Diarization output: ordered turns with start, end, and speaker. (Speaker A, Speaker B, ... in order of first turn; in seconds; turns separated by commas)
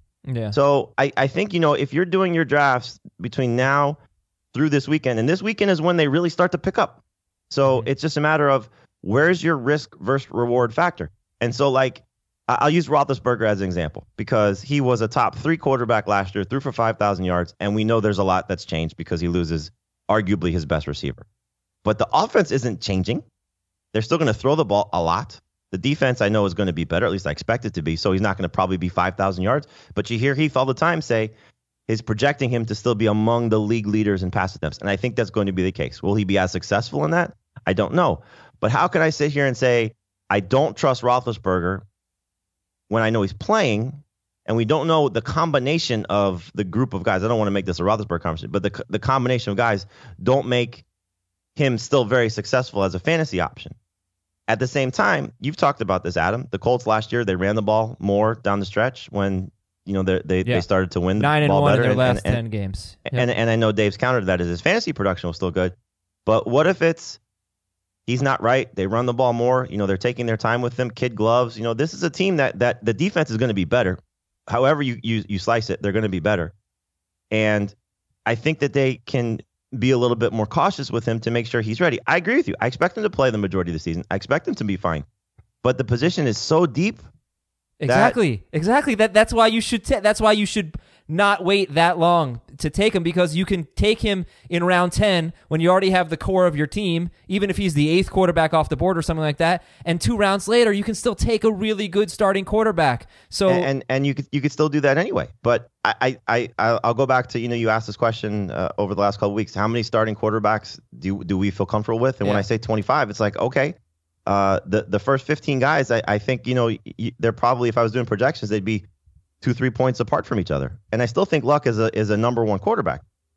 Speaker A: 0.3-0.5, Speaker B: 0.5-4.0, Speaker B: 4.5-21.2, Speaker B: 21.8-23.2, Speaker B: 23.9-31.3, Speaker B: 31.9-41.8, Speaker B: 42.9-50.8, Speaker B: 51.6-53.8, Speaker B: 54.5-62.4, Speaker A: 61.2-63.3, Speaker B: 63.1-65.7, Speaker B: 66.2-67.2, Speaker B: 68.1-76.5, Speaker B: 77.3-77.7, Speaker B: 78.2-85.0, Speaker B: 85.6-87.0, Speaker A: 87.8-103.7, Speaker B: 87.9-88.1, Speaker B: 103.5-113.8, Speaker B: 114.2-118.8, Speaker B: 119.4-123.0